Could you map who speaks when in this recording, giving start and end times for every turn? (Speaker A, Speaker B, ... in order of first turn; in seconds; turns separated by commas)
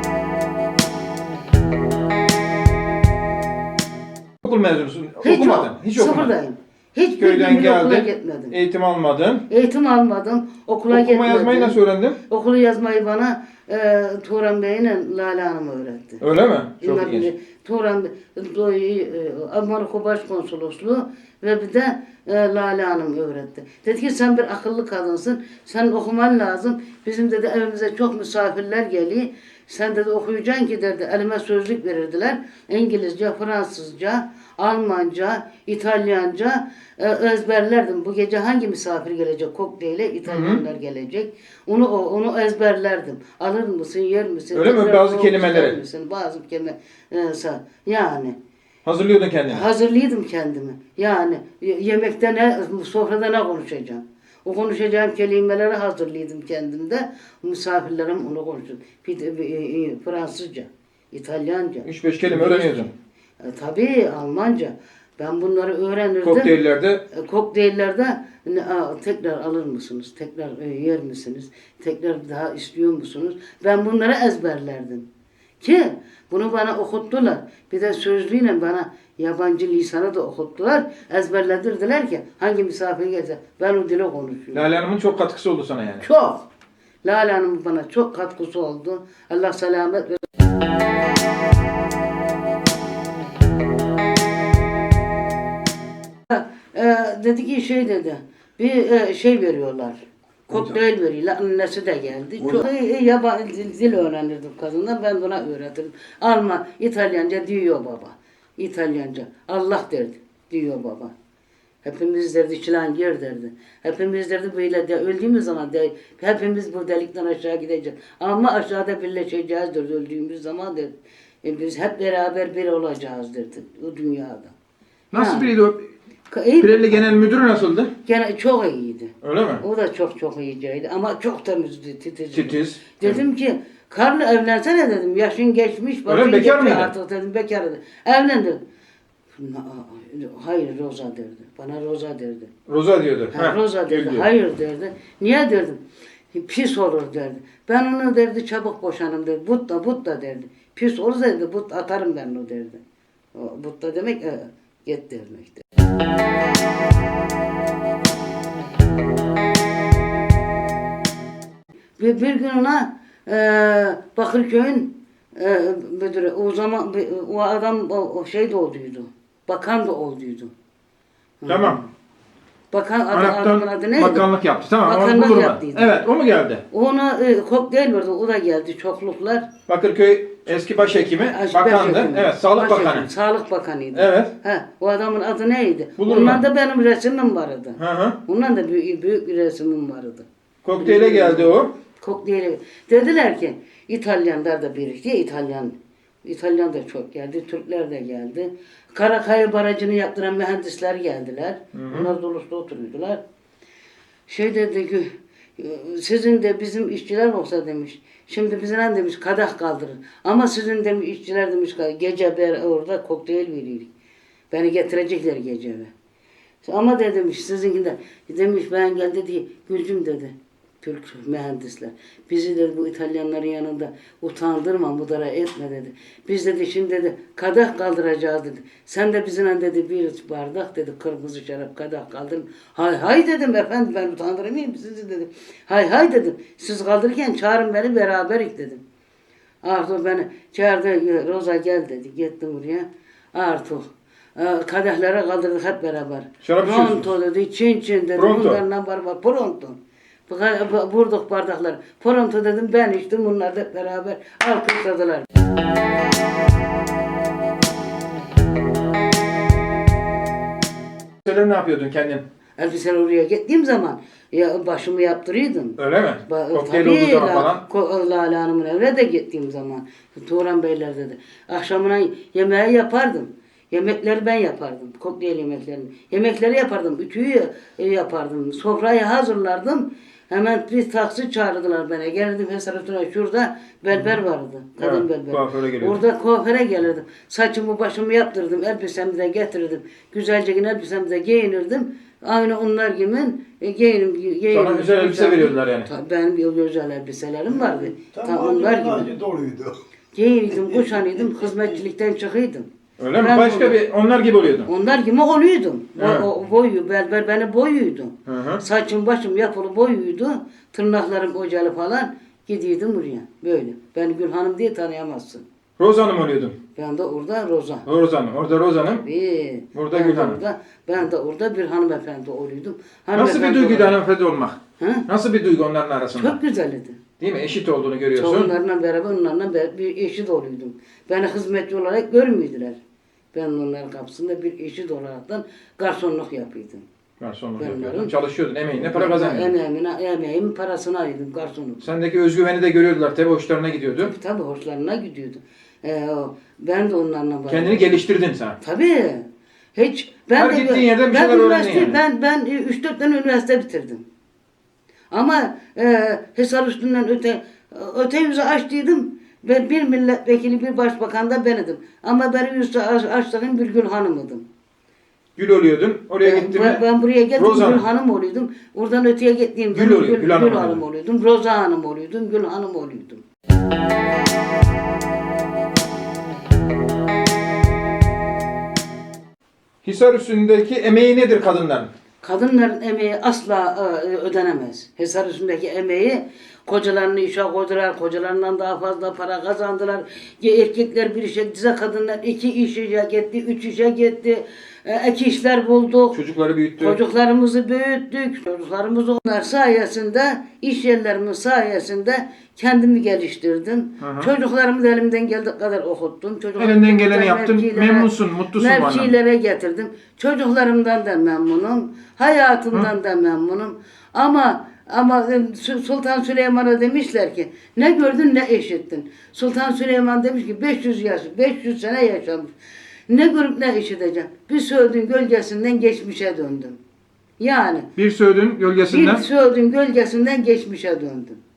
Speaker A: 4.4-6.3, Speaker B: 5.2-8.5, Speaker A: 7.2-9.4, Speaker B: 9.5-16.2, Speaker A: 10.9-12.2, Speaker A: 16.2-17.3, Speaker B: 16.8-48.4, Speaker A: 40.3-40.6, Speaker A: 44.5-45.8, Speaker A: 48.8-49.6, Speaker B: 49.5-66.5, Speaker A: 61.8-62.9, Speaker A: 66.2-67.0, Speaker B: 67.1-75.1, Speaker B: 75.6-84.6, Speaker A: 84.5-86.0, Speaker B: 86.0-86.5, Speaker B: 87.0-90.2, Speaker B: 96.3-111.1, Speaker B: 111.8-124.5, Speaker A: 125.1-125.9, Speaker B: 125.1-125.5, Speaker B: 126.3-127.1, Speaker A: 126.6-127.9, Speaker B: 128.0-138.6, Speaker A: 129.2-129.6, Speaker A: 132.3-133.2, Speaker A: 136.1-136.9, Speaker B: 139.3-142.5, Speaker A: 142.7-144.3, Speaker B: 143.3-145.8, Speaker B: 146.3-152.8, Speaker B: 153.3-155.7, Speaker B: 162.0-170.5, Speaker B: 171.4-171.9, Speaker A: 171.5-171.8, Speaker B: 172.7-174.3, Speaker A: 173.1-176.6, Speaker B: 174.8-175.9, Speaker B: 176.7-179.5, Speaker A: 179.7-183.1, Speaker B: 181.3-190.3, Speaker A: 183.9-184.3, Speaker A: 186.0-186.4, Speaker A: 187.8-188.2, Speaker A: 190.6-191.7, Speaker B: 190.8-203.2, Speaker A: 201.7-202.1, Speaker B: 204.3-213.9, Speaker B: 214.5-215.9, Speaker B: 216.6-238.8, Speaker B: 239.6-255.3, Speaker A: 246.4-247.1, Speaker A: 248.2-248.6, Speaker A: 261.2-262.2, Speaker B: 262.6-299.1, Speaker A: 265.8-267.6, Speaker A: 283.9-284.2, Speaker A: 284.8-286.0, Speaker A: 294.5-295.9, Speaker C: 297.6-299.8, Speaker B: 300.1-302.7, Speaker A: 303.0-304.7, Speaker B: 303.2-303.8, Speaker B: 304.6-315.4, Speaker A: 306.0-306.3, Speaker A: 308.2-308.6, Speaker A: 315.8-316.6, Speaker B: 316.8-317.8, Speaker A: 317.8-319.0, Speaker B: 318.8-324.0, Speaker A: 319.7-320.4, Speaker A: 323.1-326.4, Speaker B: 324.8-325.1, Speaker B: 326.1-327.0, Speaker A: 327.2-328.5, Speaker B: 328.1-332.8, Speaker B: 333.3-336.8, Speaker A: 337.2-339.5, Speaker B: 337.6-338.1, Speaker B: 338.7-341.8, Speaker A: 341.8-344.1, Speaker B: 344.0-347.9, Speaker A: 347.5-348.6, Speaker B: 348.6-354.1, Speaker A: 350.4-352.0, Speaker B: 355.1-364.4, Speaker A: 365.4-366.8, Speaker B: 366.2-373.2, Speaker A: 367.4-367.8, Speaker A: 369.7-370.8, Speaker A: 379.8-381.9, Speaker B: 382.2-396.2, Speaker A: 396.1-397.0, Speaker B: 396.8-422.5, Speaker A: 404.0-404.3, Speaker A: 406.6-409.1, Speaker B: 423.1-426.8, Speaker B: 427.4-427.9, Speaker A: 427.9-429.2, Speaker B: 428.9-431.4